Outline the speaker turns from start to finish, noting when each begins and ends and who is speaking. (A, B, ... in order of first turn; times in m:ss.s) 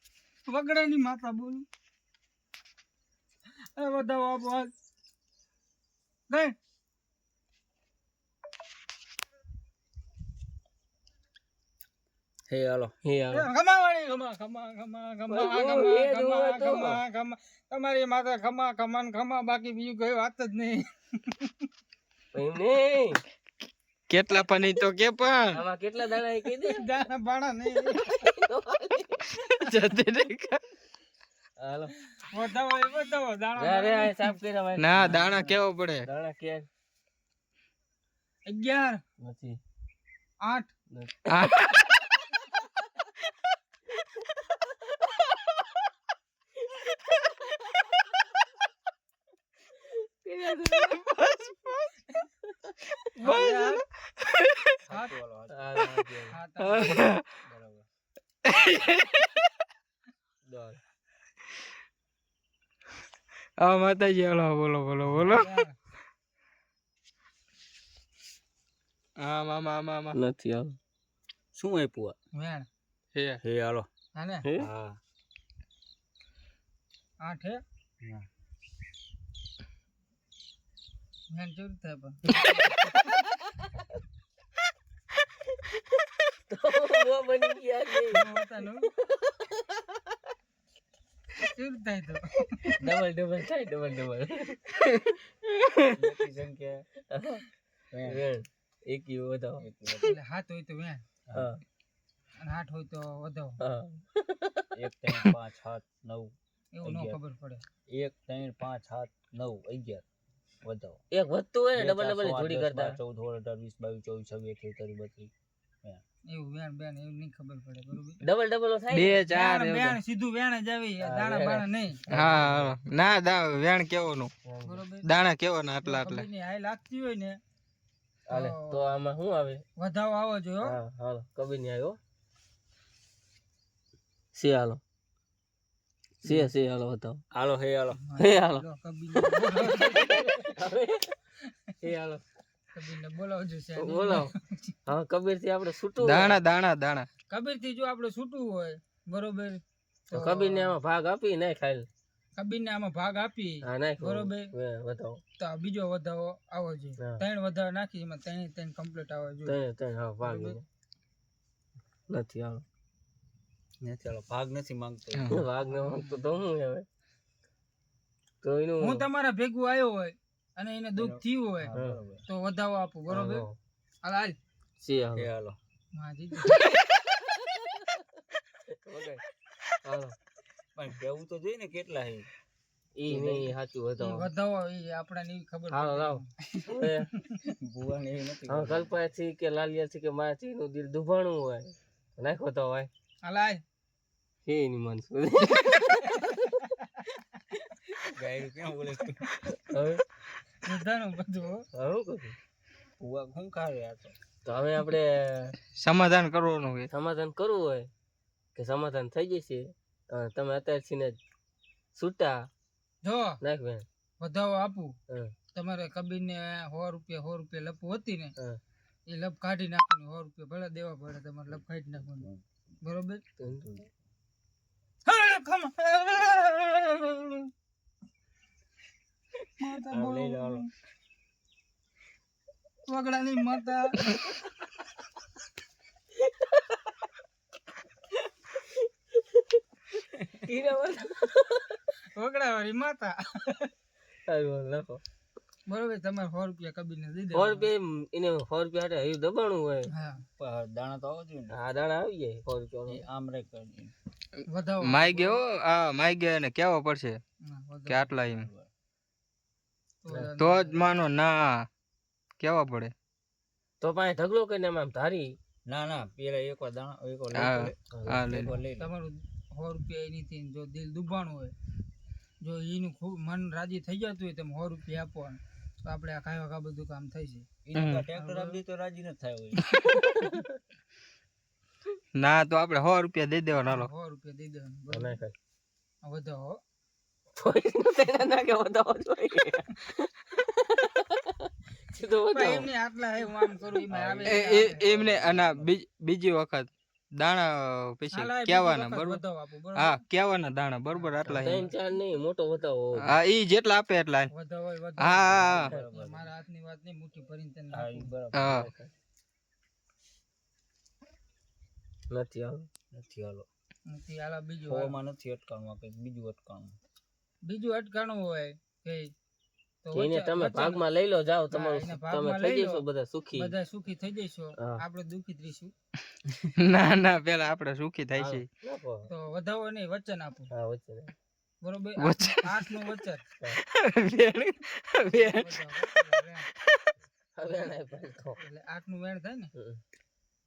0:00.5-0:01.6 A
0:03.7-0:04.7 A
0:12.5-0:12.9 B
0:13.0-0:13.5 C
0:13.3-0:21.6 A
0:15.3-0:17.0 C
0:22.3-0:23.2 C
0:24.1-0:25.6 D
0:25.5-0:26.8 C
0:26.6-0:28.2 A
0:28.0-0:29.2 C
0:29.4-0:30.6 D
0:31.6-0:31.9 C
0:32.2-0:34.3 A
0:33.6-0:35.1 C
0:34.8-0:36.0 D
0:34.9-0:35.6 A
0:36.0-0:36.7 C
0:38.4-0:39.0 A
0:39.2-0:39.6 C
0:40.4-0:40.7 A
0:40.9-0:41.5 C
0:41.3-0:41.9 D
0:49.8-0:51.0 C
0:50.7-0:51.9 D
0:53.2-0:53.8 A
0:53.2-0:54.7 D
0:54.8-0:55.9 B
0:55.5-0:56.4 C
0:56.3-0:57.1 A
0:56.6-0:57.2 D
0:57.4-0:57.9 B
0:58.4-0:59.4 D
1:00.4-1:00.8 C
1:03.6-1:05.5 D
1:05.1-1:05.7 A
1:09.2-1:10.2 D
1:10.1-1:10.8 C
1:11.5-1:12.2 B
1:12.3-1:12.7 A
1:13.1-1:13.4 D
1:13.4-1:13.9 B
1:14.1-1:14.5 A
1:14.4-1:14.7 C
1:14.6-1:15.0 B
1:17.2-1:17.6 A
1:18.0-1:18.2 B
1:21.3-1:22.5 A
1:22.5-1:23.4 C
1:26.5-1:28.2 C
1:28.1-1:28.9 A
1:29.0-1:30.0 C
1:31.4-1:32.7 A
1:32.8-1:35.2 C
1:35.9-1:36.9 B
1:37.1-1:37.5 C
1:37.9-1:38.2 B
1:38.0-1:39.6 C
1:39.6-1:40.1 B
1:40.1-1:41.0 A
1:41.3-1:41.6 C
1:42.4-1:43.6 A
1:43.6-1:45.3 C
1:44.7-1:47.2 B
1:46.7-1:47.6 A
1:47.9-1:50.0 B
1:50.6-1:51.0 B
1:51.1-1:53.0 C
1:51.7-1:55.3 B
1:56.3-1:58.2 A
1:58.2-1:59.2 C
1:58.9-2:00.0 D
1:59.3-2:02.0 A
2:01.0-2:02.7 C
2:02.1-2:04.3 D
2:04.4-2:04.8 C
2:04.6-2:05.1 A
2:05.0-2:06.3 D
2:05.8-2:07.4 A
2:08.3-2:09.6 C
2:08.3-2:09.0 A
2:09.8-2:10.8 A
2:10.6-2:12.0 C
2:14.3-2:14.8 C
2:16.2-2:17.2 C
2:17.3-2:18.0 B
2:18.0-2:20.3 A
2:18.2-2:21.2 C
2:21.8-2:22.2 C
2:22.7-2:24.7 A
2:23.8-2:24.3 C
2:24.9-2:26.4 C
2:26.0-2:27.1 D
2:27.3-2:30.8 A
2:30.1-2:31.9 C
2:32.4-2:34.5 A
2:33.6-2:35.2 C
2:35.4-2:39.6 A
2:39.4-2:40.6 C
2:40.2-2:40.6 A
2:42.1-2:42.6 C
2:43.8-2:45.4 B
2:45.3-2:46.8 C
2:45.6-2:46.2 A
2:48.4-2:49.0 C
2:48.8-2:53.5 A
2:51.0-2:52.2 B
2:53.1-2:53.6 C
2:54.0-2:54.4 A
2:54.8-2:55.3 C
2:55.1-2:55.6 B
2:55.9-2:56.7 A
2:57.2-2:58.0 C
2:58.8-2:59.2 C
2:59.8-3:00.1 C
3:00.8-3:02.3 B
3:03.0-3:04.3 C
3:03.1-3:03.5 B
3:04.0-3:07.3 A
3:05.7-3:07.1 C
3:07.4-3:08.9 B
3:08.5-3:12.9 C
3:13.2-3:13.6 A
3:14.4-3:16.3 C
3:16.2-3:16.6 A
3:18.1-3:19.4 B
3:19.7-3:20.0 C
3:20.6-3:21.6 A
3:21.7-3:22.4 C
3:23.0-3:24.2 B
3:24.4-3:25.6 C
3:25.7-3:26.9 D
3:26.9-3:27.9 C
3:28.5-3:31.2 C
3:31.9-3:32.5 C
3:33.0-3:33.4 A
3:33.4-3:33.8 C
3:34.2-3:34.9 A
3:35.5-3:38.3 A
3:39.1-3:42.3 A
3:41.5-3:42.4 B
3:42.8-3:43.2 A
3:43.4-3:43.8 C
3:45.0-3:47.5 A
3:49.6-3:50.7 A
3:49.9-3:50.6 C
3:52.9-3:54.1 A
4:00.4-4:01.8 C
4:02.1-4:03.7 A
4:04.3-4:05.0 C
4:05.7-4:07.7 A
4:07.3-4:09.9 C
4:09.9-4:10.2 A
4:10.4-4:11.6 B
4:11.5-4:13.0 C
4:12.9-4:13.9 B
4:14.5-4:15.4 A
4:14.8-4:17.2 D
4:17.4-4:18.1 A
4:17.9-4:18.5 D
4:18.2-4:18.7 B
4:20.0-4:21.0 A
4:20.4-4:21.6 D
4:22.4-4:22.9 D
4:23.8-4:25.4 C
4:25.6-4:27.8 B
4:27.3-4:28.5 D
4:27.9-4:28.6 C
4:28.3-4:28.9 B
4:28.8-4:31.5 A
4:32.4-4:37.5 A
4:37.6-4:39.6 B
4:37.8-4:38.0 D
4:38.1-4:38.6 A
4:40.2-4:40.5 C
4:42.1-4:43.9 D
4:43.6-4:45.2 A
4:44.9-4:45.3 C
4:46.0-4:46.6 A
4:47.4-4:52.7 C
4:52.3-4:54.9 A
4:53.9-4:55.8 B
4:54.2-4:59.2 D
4:58.1-5:00.0 A
4:59.8-5:01.6 D
5:00.9-5:01.7 A
5:01.2-5:03.2 C
5:03.0-5:04.3 D
5:04.3-5:08.1 A
5:05.0-5:05.7 D
5:05.2-5:06.3 B
5:07.7-5:08.6 B
5:08.3-5:08.7 D
5:08.4-5:08.9 C
5:12.1-5:12.7 C
5:12.9-5:13.4 B
5:13.9-5:14.9 A
5:14.7-5:16.8 B
5:17.4-5:19.1 A
5:19.8-5:20.8 A
5:19.9-5:23.5 C
5:21.5-5:25.7 A
5:26.3-5:28.4 D
5:28.1-5:29.1 C
5:29.1-5:30.5 A
5:30.5-5:31.1 C
5:31.6-5:33.2 A
5:32.0-5:32.7 D
5:33.7-5:35.5 D
5:35.1-5:36.5 A
5:37.4-5:38.4 C
5:38.4-5:39.5 A
5:39.6-5:39.8 C